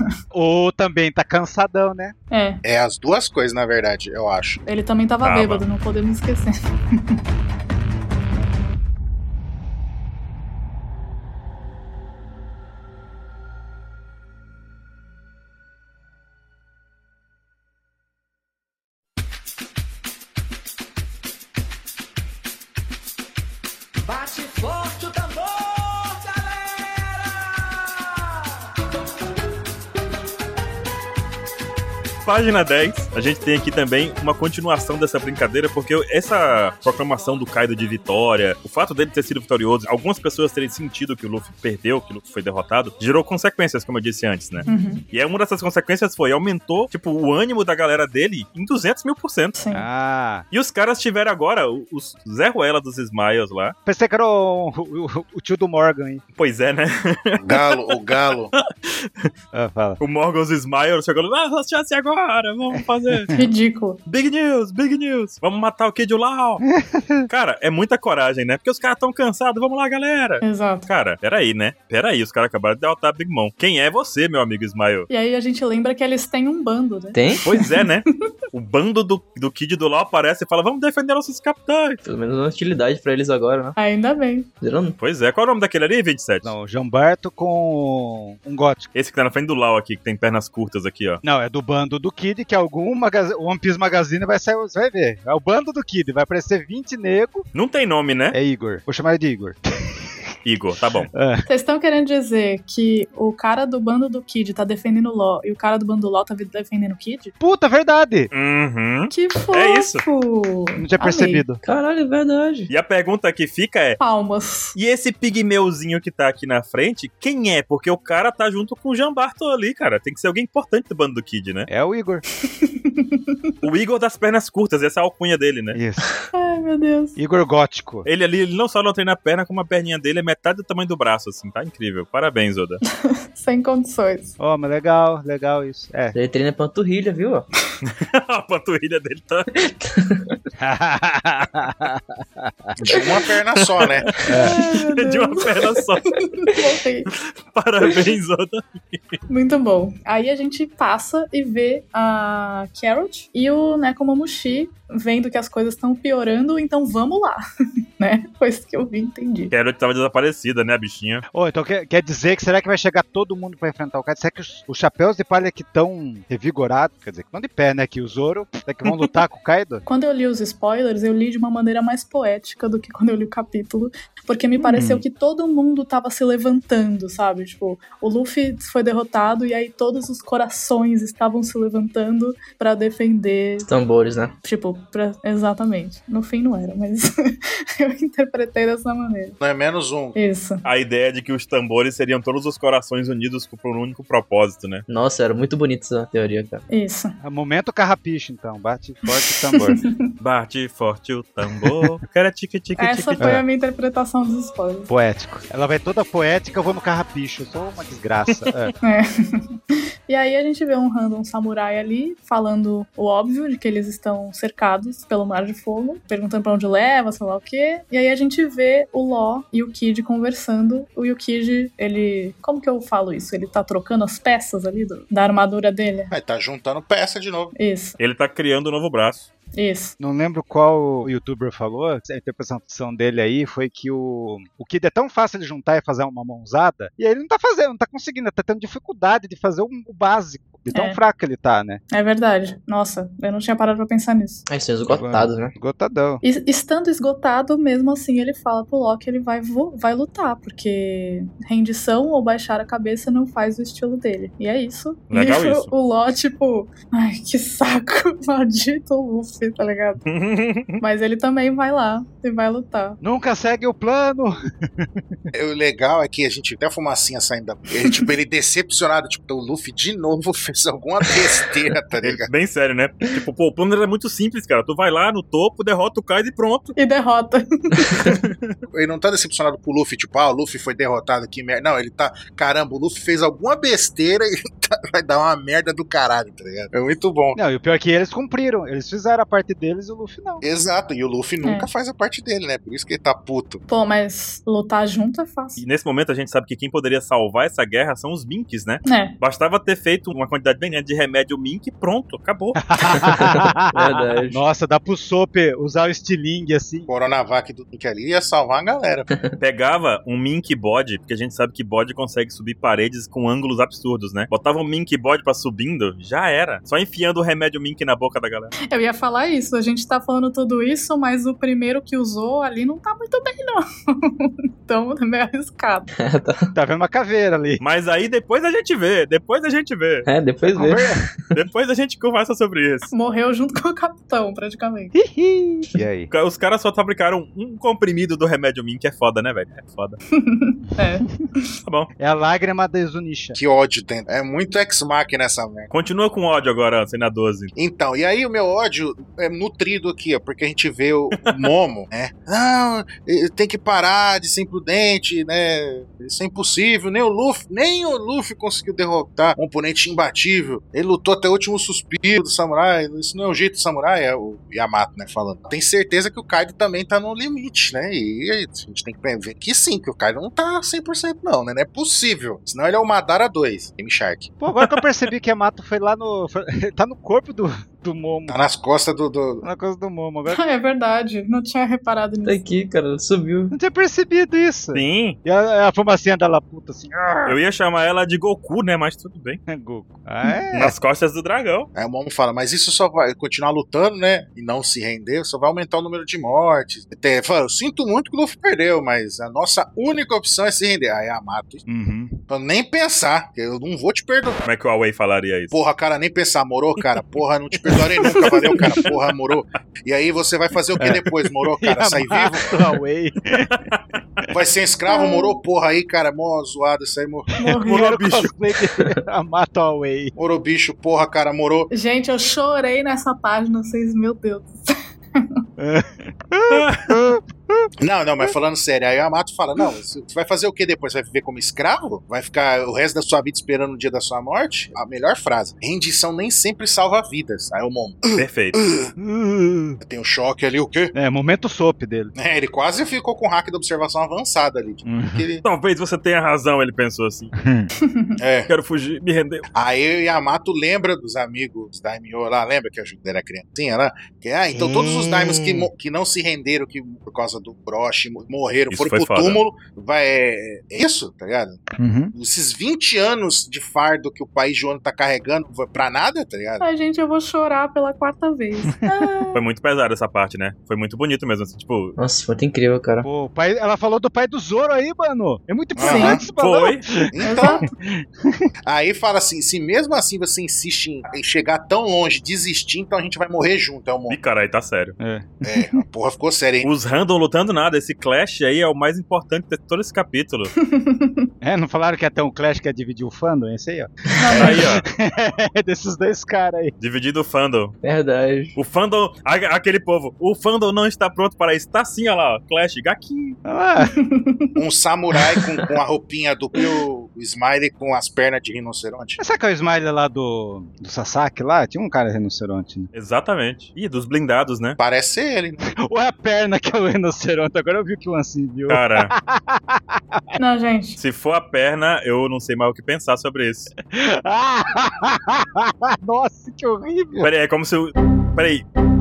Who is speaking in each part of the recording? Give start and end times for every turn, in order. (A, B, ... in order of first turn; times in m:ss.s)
0:00.3-0:02.1 A
0:02.3-0:02.6 B
0:02.6-0:04.6 C
0:04.6-0:07.2 B
0:05.2-0:05.6 D
0:24.1-0:27.1 E
0:32.2-0:49.5 D
0:44.7-0:45.0 B
0:49.6-0:49.8 B
0:49.7-0:50.4 A
0:50.5-0:53.7 D
0:53.8-0:56.2 A
0:56.4-0:57.9 D
0:57.4-0:58.5 C
0:58.5-0:59.3 D
0:59.5-1:00.0 A
1:00.0-1:03.3 D
1:02.7-1:03.5 A
1:03.3-1:04.0 B
1:04.0-1:06.6 D
1:06.6-1:07.3 A
1:07.3-1:15.1 D
1:10.4-1:10.9 B
1:15.1-1:17.9 B
1:17.1-1:17.4 F
1:17.4-1:22.0 D
1:22.0-1:23.8 F
1:23.8-1:24.5 B
1:24.6-1:25.0 F
1:25.0-1:26.5 D
1:26.4-1:28.9 A
1:28.9-1:31.2 D
1:31.2-1:37.4 A
1:37.5-1:38.4 D
1:38.3-1:40.1 A
1:40.4-1:41.1 D
1:41.1-1:41.4 A
1:41.5-1:47.3 B
1:47.4-1:48.3 A
1:48.3-1:50.0 D
1:49.1-1:51.4 B
1:50.8-1:51.6 A
1:51.6-1:52.7 F
1:52.7-1:54.0 D
1:54.0-1:54.7 B
1:54.7-2:01.7 D
2:01.7-2:02.2 A
2:02.4-2:03.3 B
2:03.6-2:05.8 D
2:05.7-2:06.1 A
2:06.3-2:07.2 B
2:07.2-2:08.0 A
2:08.0-2:12.8 D
2:12.9-2:14.3 B
2:14.4-2:16.2 A
2:16.1-2:17.5 F
2:17.8-2:19.5 D
2:19.5-2:20.4 F
2:20.6-2:22.7 A
2:22.8-2:24.1 C
2:23.8-2:26.2 D
2:24.2-2:24.6 A
2:24.3-2:27.1 B
2:27.1-2:29.2 D
2:29.3-2:37.4 B
2:38.0-2:39.5 B
2:39.5-2:41.2 D
2:41.3-2:49.8 A
2:49.8-3:03.7 B
2:54.7-2:55.0 A
3:03.6-3:04.3 F
3:04.4-3:09.4 B
3:09.4-3:10.2 C
3:10.1-3:10.6 B
3:10.6-3:14.8 D
3:14.9-3:16.6 F
3:16.7-3:17.2 B
3:17.2-3:19.8 A
3:19.5-3:20.0 B
3:20.2-3:23.3 D
3:22.8-3:24.9 B
3:23.2-3:23.4 A
3:24.9-3:28.7 A
3:28.8-3:29.6 B
3:30.1-3:46.1 B
3:46.1-3:47.5 C
3:47.6-3:48.0 B
3:48.0-3:49.3 D
3:49.5-3:49.9 B
3:50.0-4:01.8 A
4:00.7-4:01.0 B
4:01.9-4:04.4 B
4:04.5-4:05.5 F
4:04.9-4:06.2 A
4:06.2-4:20.0 B
4:15.1-4:15.7 D
4:20.0-4:20.8 D
4:20.8-4:23.0 B
4:23.0-4:25.0 A
4:25.3-4:32.3 C
4:32.0-4:36.7 D
4:36.8-4:38.2 B
4:38.0-4:38.6 D
4:38.7-4:47.4 C
4:47.4-4:50.4 A
4:50.4-4:53.6 C
4:51.4-4:51.7 B
4:53.7-4:55.6 B
4:55.6-5:02.9 D
4:58.8-4:59.1 B
5:02.7-5:06.9 A
5:03.0-5:04.4 F
5:06.9-5:09.1 C
5:09.4-5:18.5 D
5:18.7-5:25.9 B
5:26.0-5:26.5 F
5:26.5-5:27.6 A
5:27.6-5:30.0 D
5:30.0-5:31.3 F
5:30.5-5:31.0 A
5:31.3-5:32.9 D
5:32.9-5:34.9 B
5:34.9-5:36.1 A
5:36.1-5:40.0 D
5:40.1-5:41.0 B
5:40.7-5:41.2 A
5:41.6-5:41.9 D
5:42.0-5:43.4 A
5:43.4-5:45.7 C
5:45.7-5:47.5 D
5:47.6-6:14.3 C
5:51.2-5:51.5 D
6:14.4-6:18.4 A
6:18.3-6:19.4 C
6:19.4-6:20.4 A
6:20.3-6:22.4 B
6:22.2-6:23.5 F
6:23.5-6:27.4 A
6:24.7-6:25.2 D
6:27.2-6:29.4 D
6:29.5-6:30.7 A
6:30.5-6:31.7 D
6:31.7-6:41.6 C
6:41.7-6:42.1 A
6:42.3-6:44.4 C
6:44.4-6:45.5 D
6:45.5-6:52.6 C
6:47.7-6:49.0 D
6:48.1-6:48.5 B
6:50.8-6:53.6 A
6:53.5-6:54.2 D
6:54.3-6:57.3 C
6:54.9-6:55.4 B
6:57.4-6:57.9 B
6:57.6-7:00.1 A
6:57.7-6:58.3 D
7:00.2-7:01.7 C
7:01.7-7:05.3 B
7:05.6-7:07.7 A
7:06.5-7:06.9 D
7:07.8-7:18.9 C
7:18.2-7:18.6 D
7:19.0-7:19.8 A
7:19.8-7:20.9 C
7:20.9-7:22.1 A
7:22.2-7:25.4 C
7:24.8-7:25.3 A
7:25.4-7:27.3 D
7:27.4-7:27.7 A
7:27.8-7:28.2 B
7:28.2-7:28.5 C
7:28.5-7:29.4 D
7:29.5-7:46.6 C
7:34.5-7:35.7 A
7:38.7-7:39.4 D
7:41.8-7:42.1 A
7:46.6-7:49.4 B
7:48.6-7:49.1 A
7:49.3-7:51.9 D
7:52.0-7:53.1 F
7:53.0-7:58.5 A
7:55.8-7:56.2 C
7:55.8-7:56.2 B
7:56.4-7:56.8 D
7:57.1-7:57.6 C
7:57.2-7:57.7 B
7:58.6-8:04.2 C
8:04.1-8:05.0 D
8:05.0-8:05.8 A
8:05.4-8:06.7 C
8:06.6-8:10.5 D
8:10.6-8:11.3 B
8:11.4-8:16.7 A
8:14.2-8:14.6 B
8:14.3-8:14.8 D
8:16.8-8:17.7 D
8:17.8-8:18.6 F
8:18.6-8:23.4 D
8:23.4-8:24.0 A
8:23.8-8:24.6 B
8:24.6-8:29.2 C
8:29.2-8:32.9 A
8:32.9-8:34.8 D
8:34.8-8:35.6 C
8:35.8-8:40.4 A
8:38.7-8:39.1 D
8:40.4-8:41.0 B
8:41.0-8:43.7 D
8:43.9-8:47.3 A
8:47.2-8:48.6 D